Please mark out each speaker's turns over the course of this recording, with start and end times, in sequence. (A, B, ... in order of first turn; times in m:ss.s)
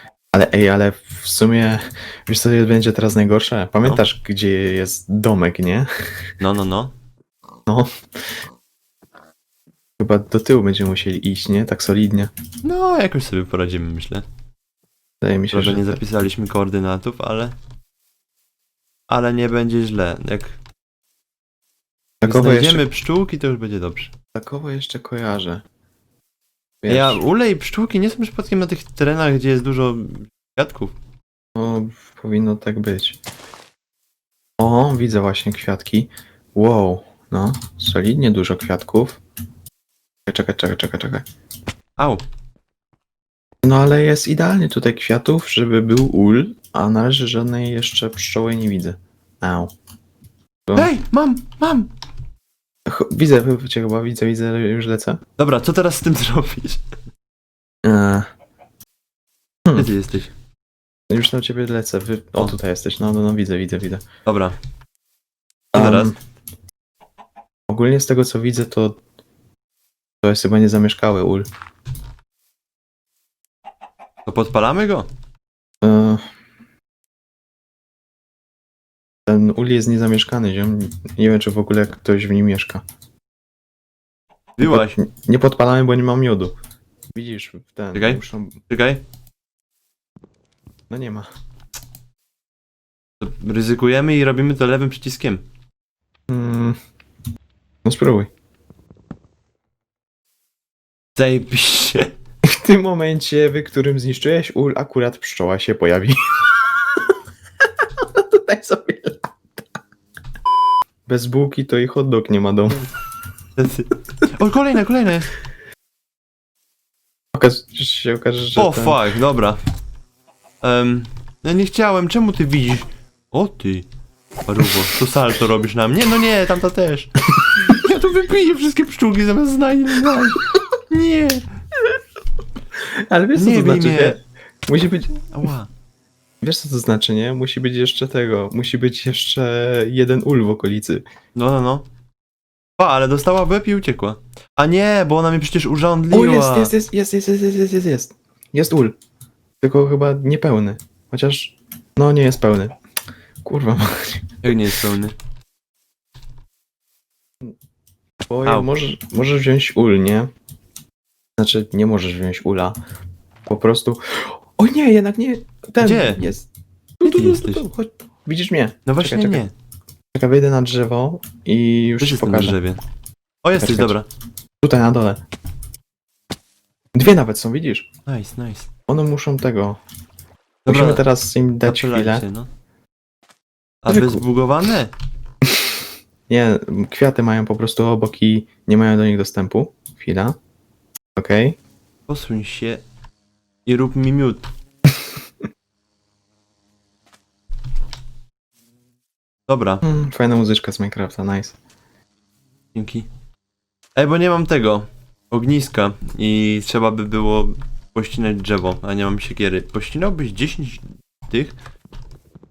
0:00.3-0:05.9 A
0:06.4-0:06.9 B
0:10.0-0:12.3 A
0:12.6-0:14.2 B
0:15.2-0:16.0 A
0:15.5-0:17.6 B
0:19.1-0:20.6 B
0:22.2-0:22.9 A
0:22.2-0:24.1 B
0:24.4-0:25.6 A
0:26.8-0:27.2 A
0:26.9-0:30.9 B
0:31.6-0:33.2 A
0:34.6-0:39.2 A
0:40.3-0:41.2 A
0:43.6-0:49.7 A
0:50.8-0:51.9 B
0:52.9-0:55.2 A
0:55.4-0:56.8 B
0:57.8-0:58.3 A
0:59.8-1:00.3 B
1:01.1-1:04.0 A
1:04.3-1:04.6 B
1:05.7-1:06.2 B
1:05.7-1:06.2 A
1:07.7-1:09.0 A
1:10.2-1:11.5 A
1:14.3-1:15.1 B
1:15.8-1:16.2 A
1:19.3-1:22.8 A
1:24.6-1:25.0 B
1:24.6-1:26.6 A
1:27.1-1:28.6 A
1:27.9-1:29.0 B
1:30.9-1:31.3 A
1:33.2-1:35.4 B
1:36.3-1:36.8 A
1:37.8-1:38.3 A
1:41.2-1:42.1 B
1:42.4-1:47.0 A
1:48.0-1:49.3 A
1:51.1-1:52.9 A
1:53.6-1:55.3 B
1:57.3-1:59.0 A
1:58.6-1:59.6 B
2:00.6-2:03.9 B
2:04.5-2:11.4 B
2:12.9-2:15.2 A
2:13.4-2:14.2 B
2:15.3-2:15.7 B
2:16.4-2:21.0 A
2:21.4-2:21.8 B
2:22.8-2:26.7 B
2:26.1-2:28.9 A
2:29.6-2:32.8 A
2:33.4-2:34.2 A
2:34.4-2:35.2 B
2:38.3-2:40.3 A
2:41.4-2:42.8 A
2:43.5-2:46.5 A
2:45.8-2:46.3 B
2:47.0-2:49.4 A
2:47.0-2:47.6 B
2:48.9-2:49.5 B
2:50.1-2:52.6 A
2:52.0-2:52.8 B
2:53.4-2:54.1 B
2:53.6-2:53.9 A
2:54.6-2:55.2 A
2:57.0-2:57.9 A
2:58.1-2:58.7 B
2:58.9-2:59.8 A
3:00.7-3:01.0 B
3:00.7-3:02.2 A
3:01.6-3:02.5 B
3:03.8-3:04.9 B
3:03.9-3:04.2 A
3:06.3-3:10.4 A
3:11.2-3:11.6 A
3:12.1-3:12.8 B
3:13.7-3:14.5 B
3:19.5-3:19.8 B
3:19.8-3:21.6 A
3:22.7-3:23.1 B
3:24.0-3:31.6 B